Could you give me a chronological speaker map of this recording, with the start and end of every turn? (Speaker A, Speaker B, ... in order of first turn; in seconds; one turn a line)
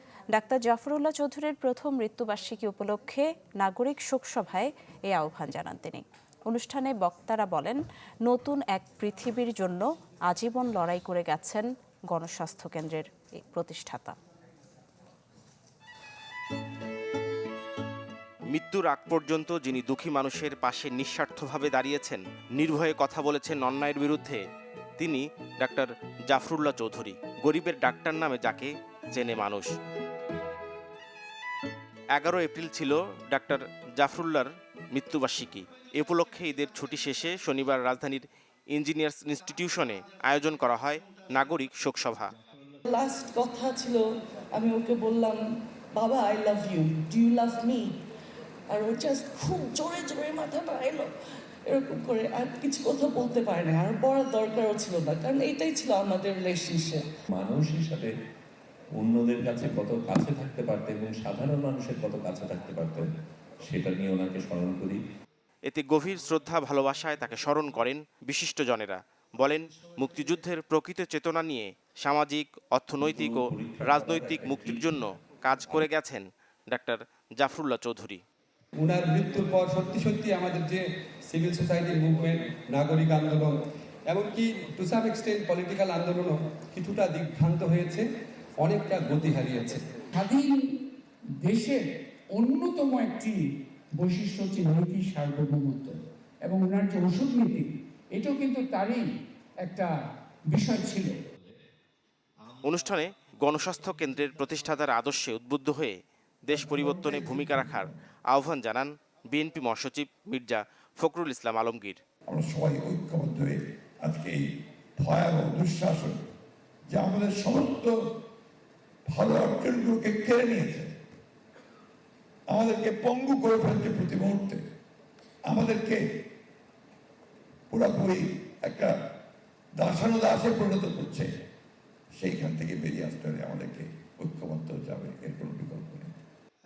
Speaker A: 0.3-14.2
Speaker B: 18.5-24.4
Speaker B: 25.0-29.7
Speaker B: 32.1-42.3
Speaker C: 42.9-48.0
Speaker C: 48.7-57.1
Speaker D: 57.3-58.1
Speaker D: 59.0-63.1
Speaker D: 63.6-65.0
Speaker B: 65.7-78.2
Speaker D: 73.0-75.0
Speaker E: 78.8-88.1
Speaker E: 88.6-89.8
Speaker F: 90.1-90.7
Speaker F: 91.4-91.8
Speaker F: 92.3-93.4
Speaker F: 94.0-99.0
Speaker F: 99.7-99.9
Speaker F: 100.5-101.2
Speaker B: 102.6-106.0
Speaker B: 106.5-112.0
Speaker G: 106.5-107.9
Speaker G: 112.3-114.4
Speaker G: 115.0-116.2
Speaker G: 116.9-117.9
Speaker G: 119.1-120.9
Speaker G: 122.5-124.6
Speaker G: 125.5-126.0
Speaker G: 127.7-128.9
Speaker G: 129.8-131.3
Speaker G: 132.2-136.1